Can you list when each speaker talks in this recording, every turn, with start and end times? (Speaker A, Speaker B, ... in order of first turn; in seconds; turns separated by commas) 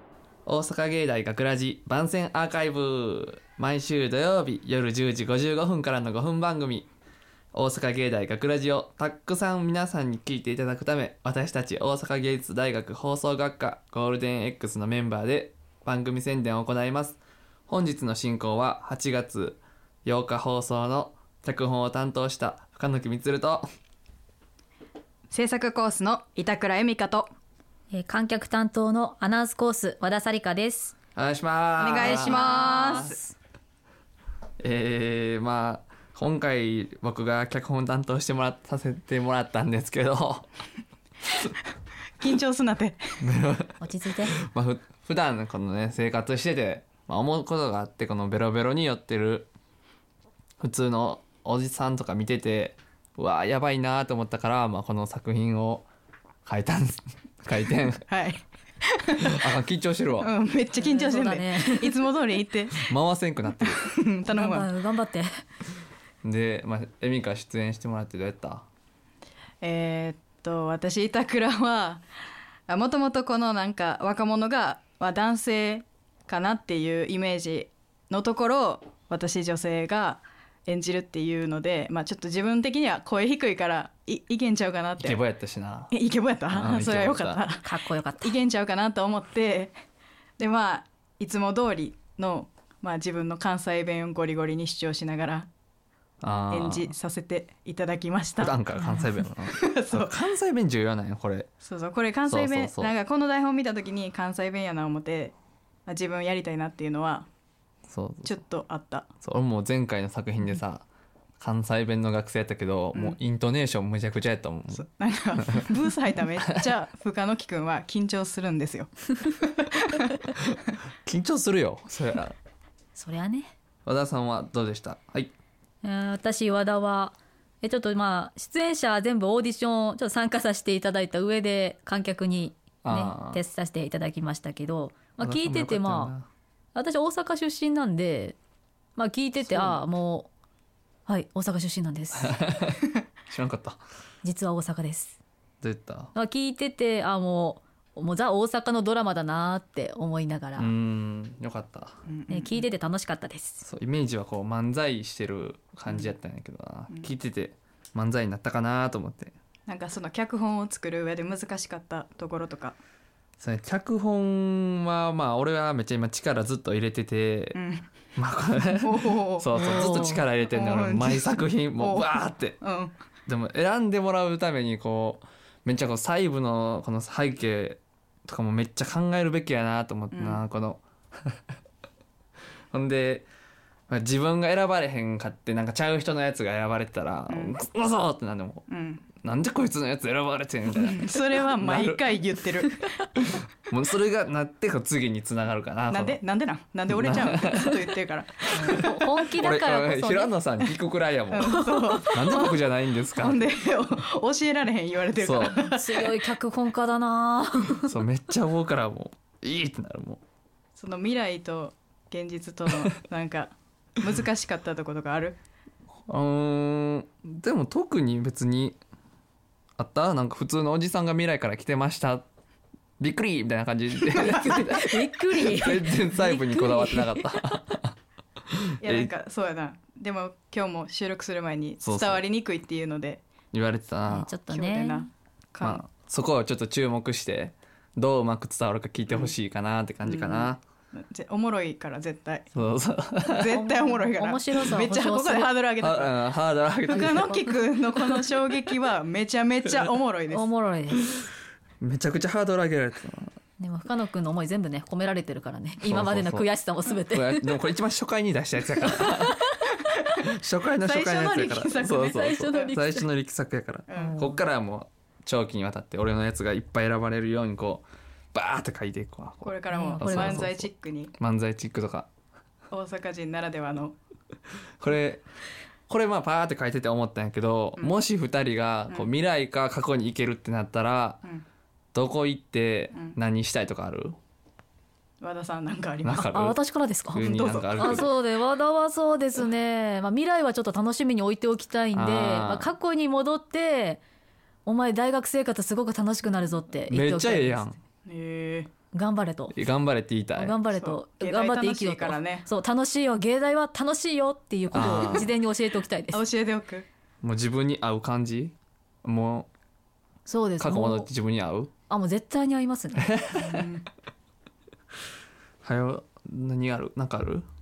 Speaker A: 0.5-6.9, Speaker A: 7.5-23.6, Speaker B: 25.3-27.3, Speaker C: 27.9-30.9, Speaker A: 31.1-33.1, Speaker B: 31.8-33.1, Speaker C: 32.0-33.3, Speaker A: 34.6-40.5, Speaker B: 42.2-43.0, Speaker A: 43.2-43.7, Speaker C: 43.8-44.4, Speaker A: 44.3-49.5, Speaker A: 50.6-55.9, Speaker A: 56.5-58.0, Speaker B: 58.1-59.4, Speaker A: 59.3-60.3, Speaker B: 60.2-62.9, Speaker C: 60.8-61.9, Speaker A: 62.8-63.9, Speaker B: 63.6-64.7, Speaker C: 64.3-65.3, Speaker A: 66.2-68.6, Speaker B: 69.6-72.0, Speaker B: 72.7-85.2, Speaker A: 85.0-85.9, Speaker B: 85.9-87.7, Speaker A: 86.5-87.4, Speaker C: 87.6-88.3, Speaker B: 88.2-89.7, Speaker B: 90.4-95.5, Speaker A: 96.2-96.9, Speaker B: 96.5-98.6, Speaker A: 98.4-101.5, Speaker B: 99.5-100.2, Speaker B: 101.6-105.3, Speaker A: 102.2-102.9, Speaker B: 105.8-107.3, Speaker A: 107.9-108.4, Speaker B: 108.2-109.1, Speaker A: 109.2-110.8, Speaker A: 111.4-114.8, Speaker B: 114.7-120.3, Speaker A: 121.0-122.3, Speaker C: 122.9-123.5, Speaker A: 123.8-125.3, Speaker C: 125.8-136.1, Speaker A: 132.8-133.4, Speaker A: 135.2-136.3, Speaker C: 136.7-138.4, Speaker C: 138.9-140.3, Speaker A: 139.4-139.9, Speaker C: 141.1-142.3, Speaker A: 142.2-143.8, Speaker C: 144.2-145.2, Speaker A: 145.6-146.1, Speaker C: 146.1-150.7, Speaker A: 150.6-151.9, Speaker B: 152.1-152.6, Speaker C: 152.3-153.6, Speaker A: 153.6-159.3, Speaker B: 159.7-162.8, Speaker A: 163.4-167.6, Speaker B: 167.5-167.9, Speaker A: 168.2-172.6, Speaker B: 168.8-172.9, Speaker C: 169.5-170.2, Speaker A: 173.3-181.3, Speaker B: 180.1-180.4, Speaker A: 182.7-183.3, Speaker A: 183.9-188.7, Speaker B: 187.3-187.5, Speaker B: 188.7-189.1, Speaker A: 189.2-192.0, Speaker B: 190.8-193.1, Speaker A: 193.7-196.2, Speaker B: 195.9-198.8, Speaker A: 196.9-197.7, Speaker C: 198.6-200.3, Speaker A: 199.3-203.4, Speaker B: 201.3-202.6, Speaker B: 203.2-206.2, Speaker A: 205.2-205.7, Speaker C: 205.6-207.9, Speaker A: 207.9-210.2, Speaker B: 210.7-215.4, Speaker A: 216.1-218.8, Speaker A: 219.8-222.2, Speaker A: 223.0-227.9, Speaker C: 224.2-227.3, Speaker A: 228.7-229.1, Speaker B: 228.8-233.2, Speaker A: 231.8-232.2, Speaker A: 233.5-234.3, Speaker C: 234.1-235.1, Speaker B: 234.2-235.9, Speaker A: 235.6-240.6, Speaker B: 240.1-242.5, Speaker A: 242.5-243.5, Speaker B: 243.3-246.2, Speaker C: 243.5-245.5, Speaker A: 245.8-247.4, Speaker B: 246.9-250.5, Speaker C: 246.9-247.6, Speaker C: 250.3-251.0, Speaker A: 251.8-253.3, Speaker C: 253.6-257.4, Speaker A: 255.8-256.5, Speaker A: 257.1-259.4, Speaker B: 259.7-260.2, Speaker A: 260.3-272.1, Speaker B: 260.8-262.7, Speaker C: 262.0-263.1, Speaker B: 263.9-264.2, Speaker C: 264.0-264.4, Speaker B: 269.4-271.1, Speaker C: 269.7-270.5, Speaker B: 272.7-273.9, Speaker A: 274.8-275.2, Speaker A: 275.9-281.2, Speaker A: 281.9-284.2, Speaker B: 285.2-286.2, Speaker A: 286.0-286.6, Speaker C: 286.2-294.0, Speaker A: 287.1-288.1, Speaker B: 287.1-288.1, Speaker A: 291.9-292.7, Speaker C: 294.6-297.6, Speaker A: 296.9-297.8, Speaker B: 298.1-298.7, Speaker C: 298.9-299.5, Speaker A: 299.5-300.6, Speaker C: 300.4-306.2, Speaker B: 300.8-302.5, Speaker A: 304.7-305.3, Speaker B: 304.7-305.3, Speaker B: 306.1-306.9, Speaker A: 307.2-309.5, Speaker C: 310.2-311.1, Speaker A: 310.6-311.7, Speaker C: 311.9-313.1, Speaker A: 313.1-313.6, Speaker B: 313.4-313.9, Speaker A: 315.6-317.4